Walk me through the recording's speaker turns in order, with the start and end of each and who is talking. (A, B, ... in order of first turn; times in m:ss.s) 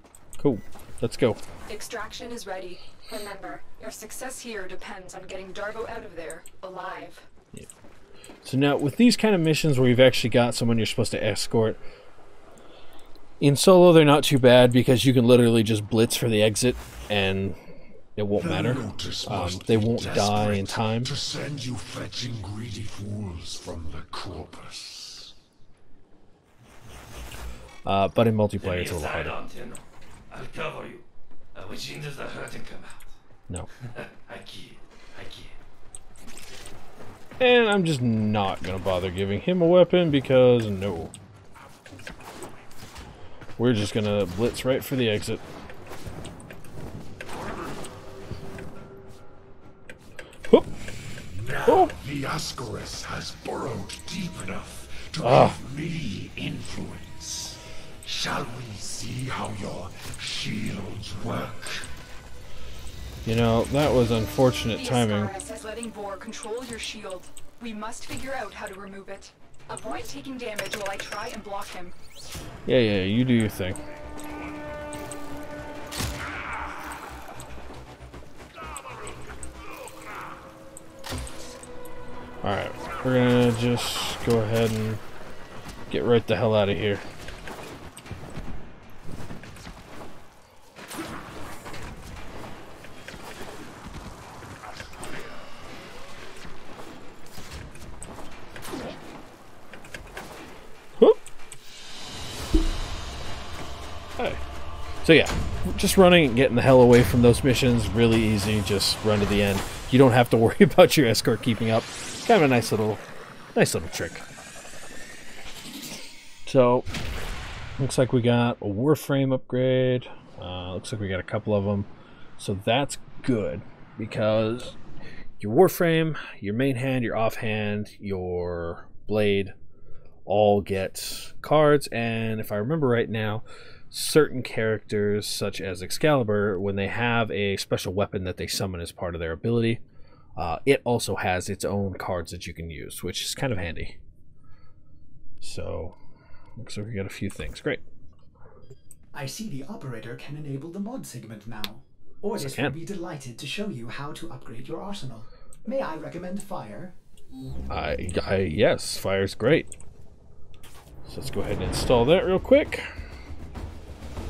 0:00.4-0:01.4 A
0:01.7-0:07.3 B
0:08.4-0:11.8 A
0:13.4-0:17.6 A
0:18.2-0:21.1 A
0:18.3-0:25.3 C
0:27.8-0:29.4 A
0:28.6-0:33.2 D
0:33.8-0:35.6 D
0:37.4-0:41.1 A
0:43.6-0:45.4 A
0:51.2-1:01.9 C
0:51.7-0:51.9 A
0:55.2-0:55.6 A
1:03.2-1:05.3 A
1:04.7-1:11.9 B
1:12.6-1:13.8 A
1:22.4-1:25.0 A
1:25.9-1:27.0 A
1:45.0-1:53.0 A
1:53.5-1:54.2 A
1:56.4-1:56.9 A
1:57.8-2:04.8 A
2:05.4-2:09.5 A
2:10.2-2:19.8 A
2:20.4-2:24.0 A
2:25.4-2:26.0 A
2:26.6-2:27.8 A
2:29.1-2:37.0 E
2:32.4-2:32.8 A
2:37.7-2:39.7 A
2:41.0-2:42.9 A